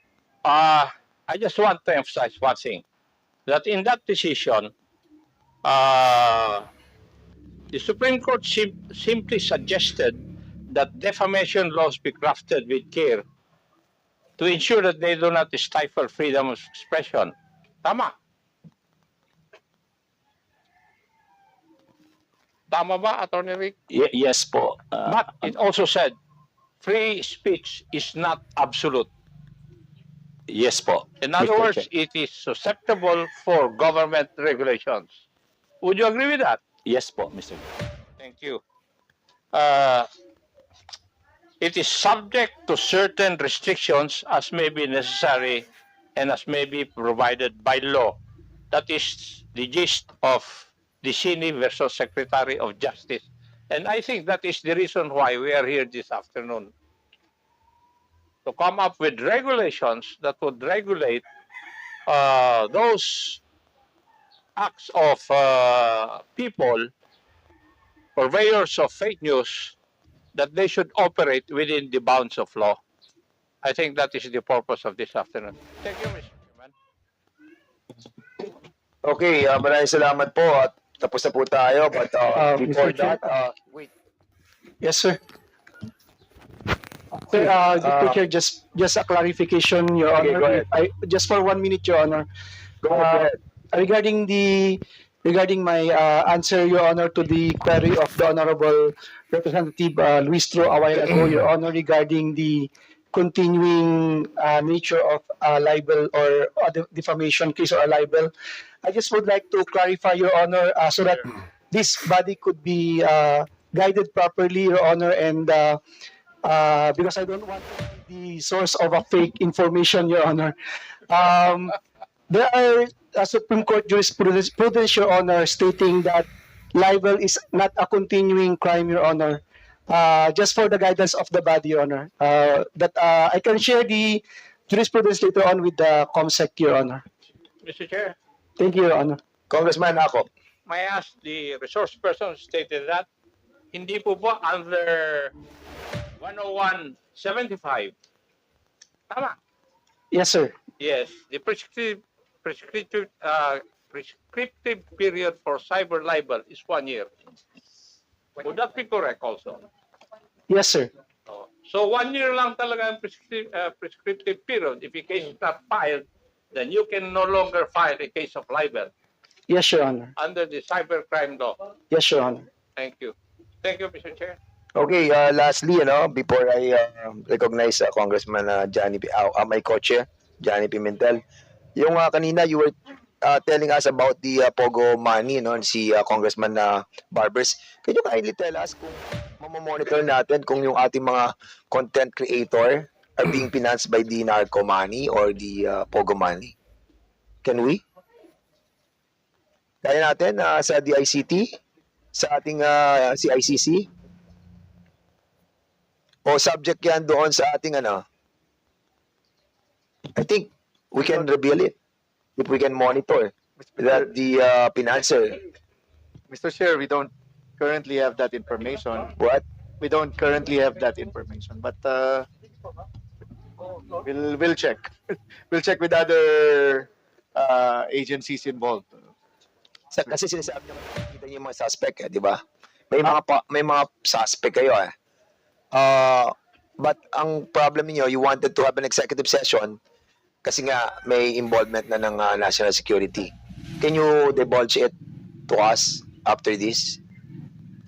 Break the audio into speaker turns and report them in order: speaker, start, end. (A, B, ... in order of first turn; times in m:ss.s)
0:00.4-0:02.8 A
0:03.5-0:04.7 A
0:05.6-0:06.7 A
0:07.7-0:10.2 A
0:10.7-0:13.2 A
0:14.4-0:18.1 A
0:22.7-0:23.7 A
0:23.9-0:25.5 B
0:25.1-0:26.2 A
0:26.8-0:29.1 A
0:30.5-0:31.9 B
0:31.2-0:35.2 A
0:35.8-0:36.6 A
0:36.8-0:37.7 B
0:38.2-0:38.6 A
0:39.5-0:40.1 A
0:41.6-0:45.6 A
0:46.2-0:48.2 A
0:48.7-0:56.7 A
0:58.5-1:01.2 A
1:02.1-1:03.4 A
1:04.6-1:06.9 A
1:08.2-1:09.8 A
1:10.4-1:12.8 A
1:13.6-1:16.7 A
1:19.0-1:23.9 C
1:22.3-1:23.2 D
1:24.8-1:25.2 D
1:27.3-1:32.3 D
1:27.3-1:28.2 C
1:30.1-1:30.7 C
1:32.8-1:33.4 C
1:32.9-1:48.3 D
1:48.8-1:55.8 D
1:56.4-2:00.5 D
2:01.1-2:01.8 D
2:02.3-2:17.0 D
2:17.6-2:18.2 A
2:18.6-2:19.2 D
2:19.5-2:20.3 C
2:20.7-2:23.1 A
2:23.7-2:25.3 A
2:26.2-2:27.9 A
2:29.1-2:29.4 A
2:30.1-2:30.5 D
2:30.8-2:37.1 A
2:38.4-2:39.6 A
2:40.5-2:40.9 D
2:41.3-2:48.9 A
2:49.5-2:50.1 D
2:50.2-2:51.7 A
2:51.9-2:52.5 D
2:52.8-2:54.4 A
2:54.8-3:01.2 C
3:01.8-3:16.5 C
3:17.4-3:17.8 C
3:19.8-3:21.6 C
3:22.2-3:23.9 C
3:26.3-3:28.0 C
3:30.2-3:31.8 C
3:32.4-3:35.4 C
3:36.3-3:39.1 E
3:39.2-3:39.4 C
3:39.8-3:42.3 E
3:44.0-3:49.1 E
3:49.9-3:54.9 C
3:55.7-3:59.8 C
4:00.4-4:04.9 C
4:05.5-4:07.0 C